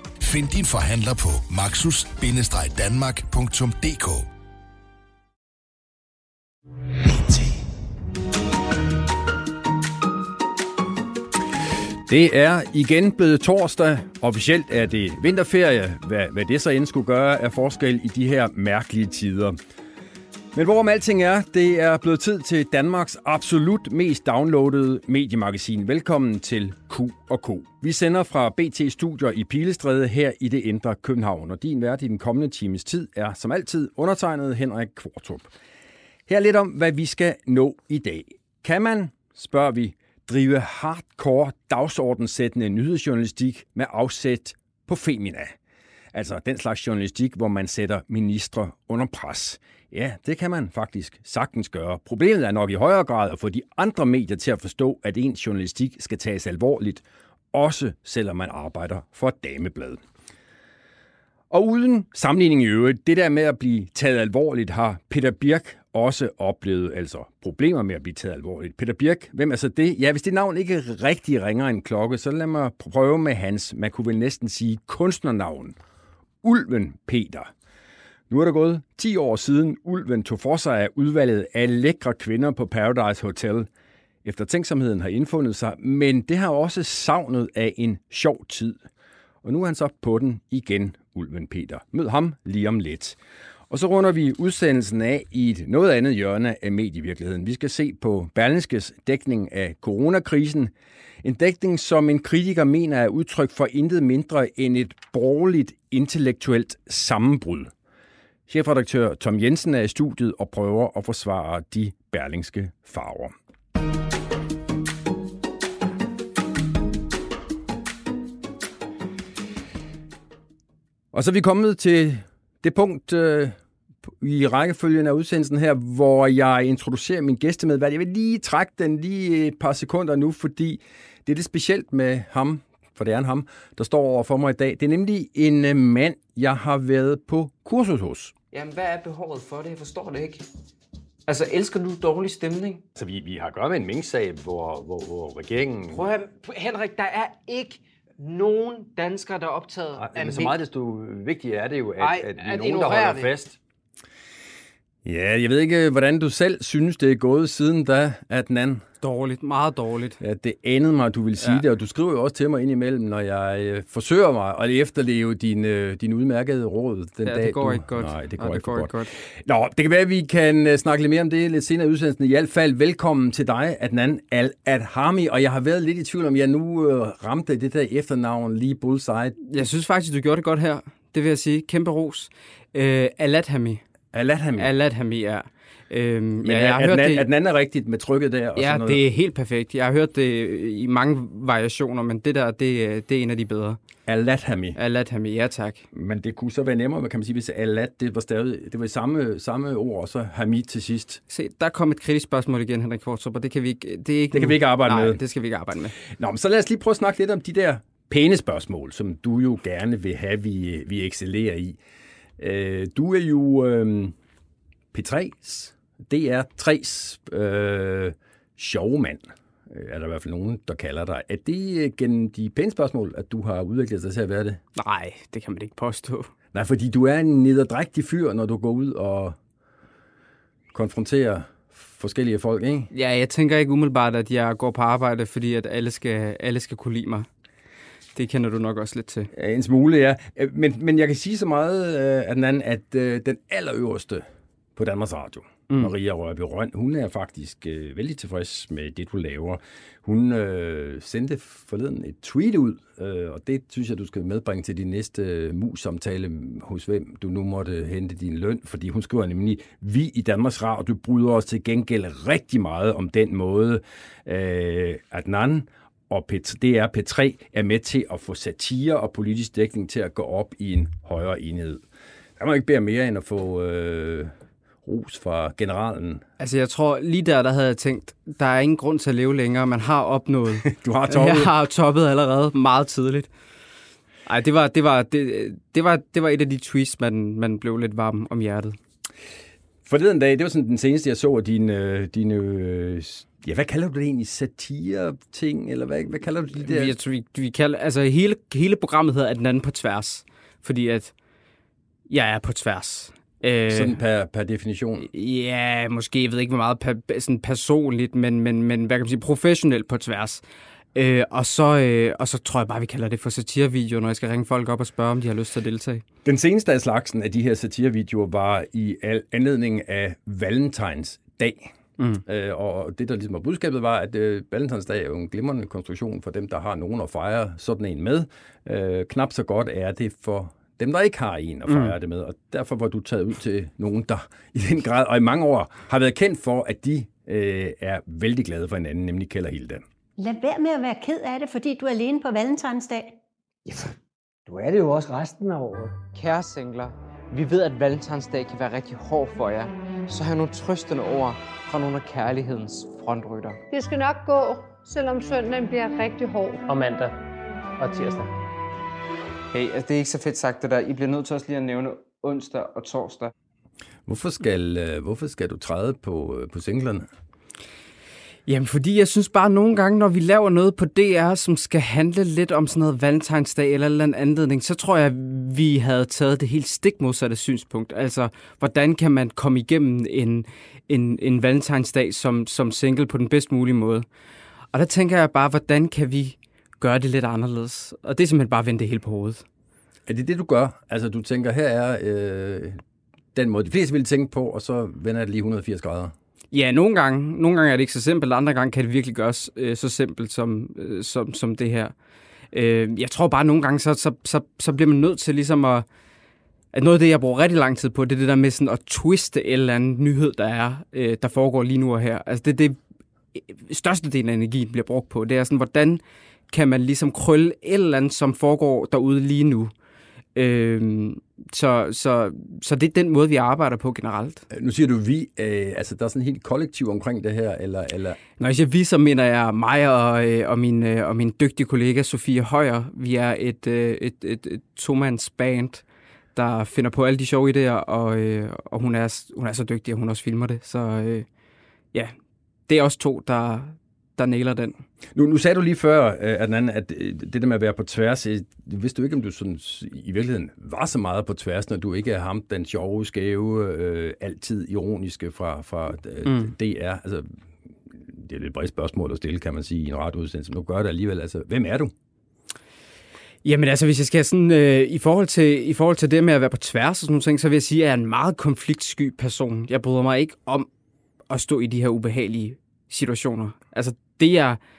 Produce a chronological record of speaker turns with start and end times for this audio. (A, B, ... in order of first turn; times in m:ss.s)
0:00.2-0:04.2 A
0:07.0-0:07.6 A
0:12.0-0:19.6 B
0:20.5-0:35.5 B
0:36.3-0:45.6 B
0:46.1-1:00.0 B
1:01.5-1:15.8 B
1:16.4-1:17.5 B
1:18.3-1:23.7 B
1:24.2-1:28.8 B
1:29.4-1:33.2 B
1:33.7-1:47.7 B
1:48.5-1:53.3 B
2:01.1-2:03.6 B
2:04.1-2:18.3 B
2:18.5-2:20.4 C
2:21.3-2:22.8 C
2:22.9-2:26.1 B
2:25.9-2:30.5 C
2:30.0-2:33.6 B
2:32.0-2:33.3 C
2:35.0-2:38.8 B
2:39.0-2:40.2 D
2:40.2-2:59.4 B
2:47.2-2:49.1 D
2:59.5-3:03.8 D
3:04.1-3:04.7 B
3:04.6-3:07.2 D
3:06.4-3:09.0 B
3:08.6-3:13.8 D
3:14.0-3:14.8 B
3:14.7-3:15.8 D
3:15.9-3:21.2 B
3:21.3-3:26.0 D
3:24.3-3:25.2 B
3:26.0-3:31.8 B
3:32.4-3:34.1 B
3:34.9-3:44.6 B
3:44.8-3:46.3 D
3:46.5-3:49.4 B
3:50.7-3:52.9 B
3:52.9-3:57.3 D
3:58.1-3:59.3 D
3:59.3-4:31.8 B
4:32.4-4:34.3 B
4:34.8-4:36.2 B
4:36.4-4:43.3 D
4:40.6-4:41.5 B
4:44.2-4:48.8 D
4:49.8-4:57.0 B
4:56.6-5:01.1 D
5:02.1-5:04.0 D
5:03.7-5:05.1 B
5:05.1-5:10.4 D
5:10.9-5:16.0 D
5:16.2-5:21.7 B
5:22.2-5:39.8 B
5:31.7-5:31.9 D
5:40.2-5:43.2 E
5:43.6-5:46.0 F
5:46.1-5:53.6 C
5:53.7-5:56.6 G
5:56.7-5:57.2 F
5:57.8-5:58.3 F
5:59.5-6:03.3 C
6:04.0-6:07.1 B
6:08.5-6:24.0 D
6:24.7-6:29.4 D
6:30.0-6:32.8 B
6:33.3-6:36.1 B
6:36.5-6:41.9 D
6:42.5-6:45.8 D
6:46.7-6:52.8 D
6:53.3-6:59.7 D
7:00.3-7:04.4 D
7:04.5-7:08.2 B
7:08.4-7:15.8 D
7:16.3-7:21.3 D
7:22.7-7:24.8 D
7:25.1-7:41.9 B
7:36.2-7:36.5 D
7:43.4-7:50.7 D
7:51.3-7:54.6 D